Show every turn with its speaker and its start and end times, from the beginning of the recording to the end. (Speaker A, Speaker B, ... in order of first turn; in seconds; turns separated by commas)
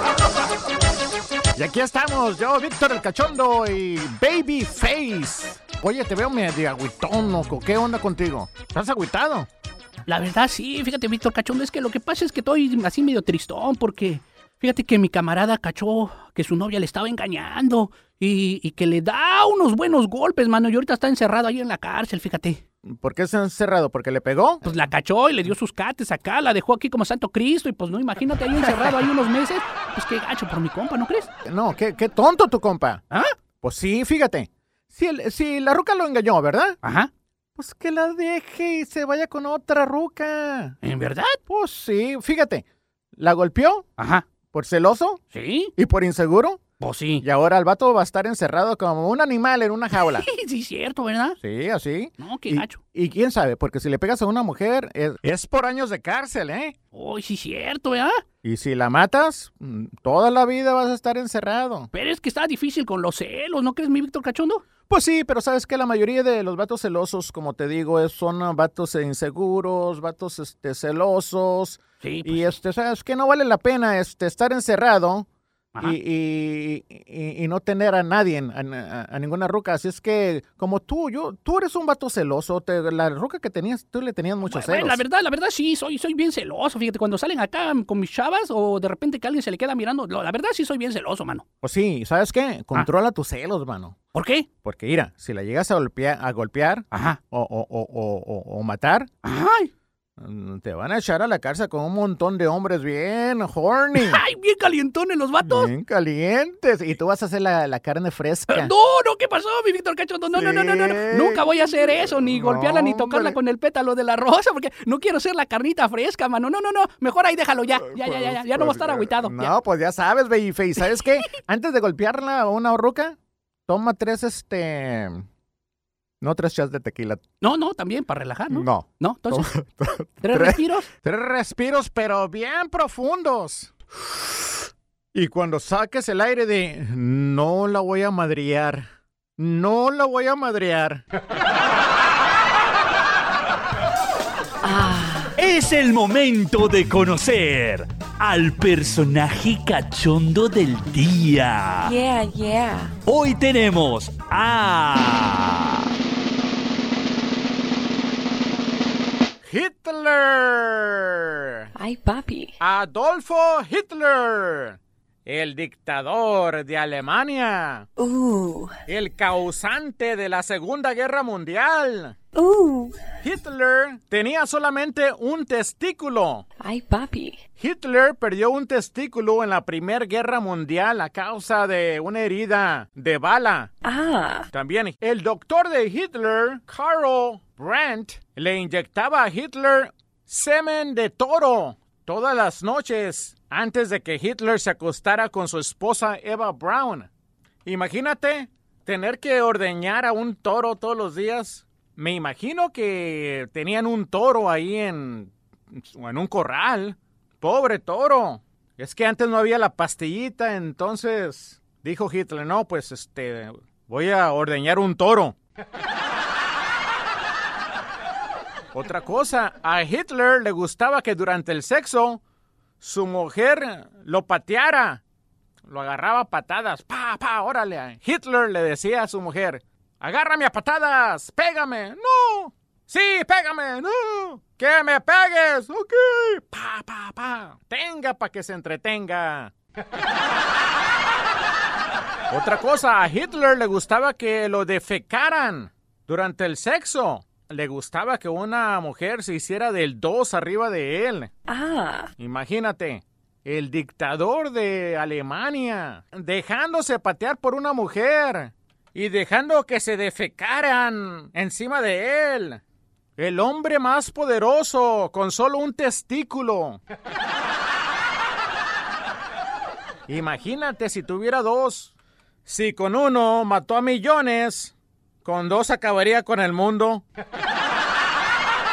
Speaker A: 1.6-9.5, Speaker B: 10.1-22.6, Speaker A: 22.9-24.7, Speaker B: 24.6-31.3, Speaker A: 31.4-33.0, Speaker A: 33.6-36.8, Speaker B: 36.8-37.1, Speaker A: 37.5-40.8, Speaker B: 40.8-41.4, Speaker A: 41.5-42.6, Speaker A: 43.1-43.9, Speaker B: 44.0-44.2, Speaker A: 44.5-45.2, Speaker B: 45.3-45.7, Speaker A: 45.8-46.6, Speaker B: 46.8-47.2, Speaker A: 47.2-50.3, Speaker B: 49.9-51.4, Speaker A: 51.4-56.7, Speaker B: 52.2-52.8, Speaker B: 56.9-58.2, Speaker A: 58.4-61.9, Speaker B: 61.9-64.6, Speaker A: 64.9-75.3, Speaker B: 72.0-72.5, Speaker A: 75.8-85.0, Speaker B: 84.5-91.4, Speaker A: 91.6-94.0, Speaker B: 94.1-94.5, Speaker A: 94.6-99.1, Speaker B: 96.9-97.2, Speaker B: 99.2-99.7, Speaker A: 100.2-104.2, Speaker B: 103.9-105.7, Speaker A: 105.4-108.7, Speaker B: 108.5-119.5, Speaker A: 110.3-113.4, Speaker A: 117.8-123.2, Speaker A: 123.7-125.2, Speaker A: 126.2-127.2, Speaker B: 127.4-129.5, Speaker A: 128.5-133.7, Speaker B: 130.2-130.9, Speaker A: 135.1-141.0, Speaker C: 144.6-145.3, Speaker D: 145.3-152.0, Speaker C: 151.8-152.9, Speaker D: 153.1-155.9, Speaker A: 159.4-161.7, Speaker C: 161.7-162.5, Speaker A: 162.6-167.9, Speaker C: 168.0-168.7, Speaker A: 168.8-172.2, Speaker C: 172.3-173.0, Speaker A: 173.2-176.4, Speaker C: 176.6-177.4, Speaker A: 177.6-183.7, Speaker C: 183.8-184.5, Speaker A: 184.5-197.1, Speaker A: 197.6-215.4, Speaker A: 218.7-222.2, Speaker A: 222.8-225.0, Speaker A: 225.7-239.5, Speaker A: 242.3-251.3, Speaker C: 251.5-252.1, Speaker A: 252.2-262.6, Speaker A: 263.2-266.8, Speaker A: 270.1-271.9, Speaker A: 272.4-277.0